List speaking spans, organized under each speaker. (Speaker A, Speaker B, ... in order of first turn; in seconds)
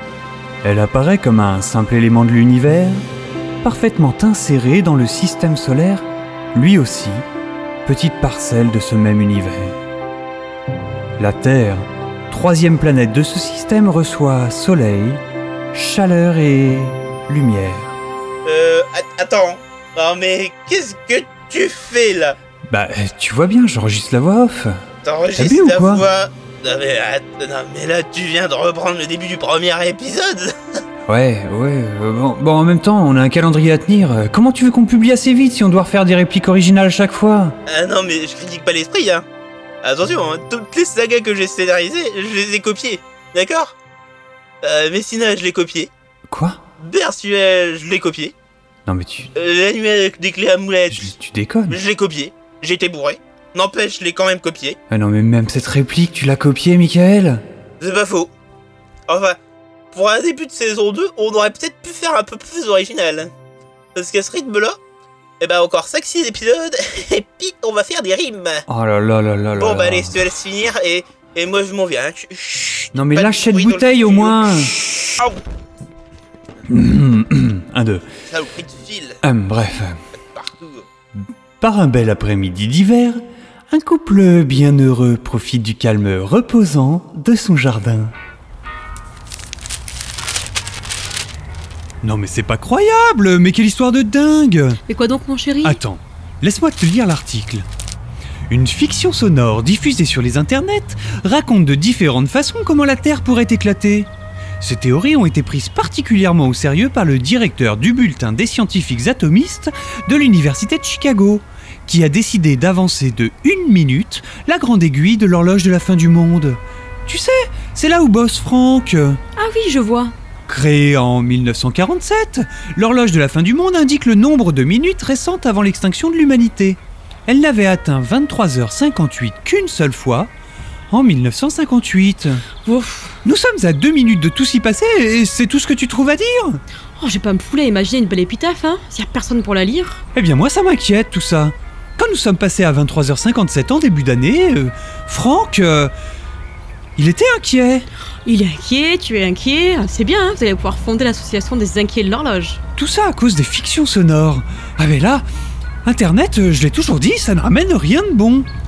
Speaker A: 0.6-3.0, 3.6-7.2, 7.8-9.8, 11.2-15.2, 15.7-17.9, 22.7-24.8, 25.4-26.1, 31.1-37.5, 46.3-46.6, 48.9-49.3, 50.9-51.8, 54.9-57.4, 68.7-70.2, 72.9-74.7, 76.7-78.0, 79.2-80.0, 81.6-88.1, 92.0-94.8, 95.6-97.7, 98.5-104.1, 104.6-119.2, 120.5-130.3, 130.9-132.4, 133.2-136.6, 140.2-145.9, 146.9-147.9, 152.8-155.2, 155.8-158.5
Speaker B: 18.4-22.4, 25.0-30.5, 37.7-39.2, 39.8-43.7, 44.6-45.9, 46.8-48.3, 49.3-51.1, 51.7-54.8, 57.8-58.3, 59.1-59.4, 59.9-63.3, 63.9-64.8, 65.4-68.7, 69.5-75.4, 78.3-79.2, 80.3-80.9
Speaker C: 94.9-95.8, 119.3-120.1, 132.6-133.2, 137.0-140.0, 148.2-152.6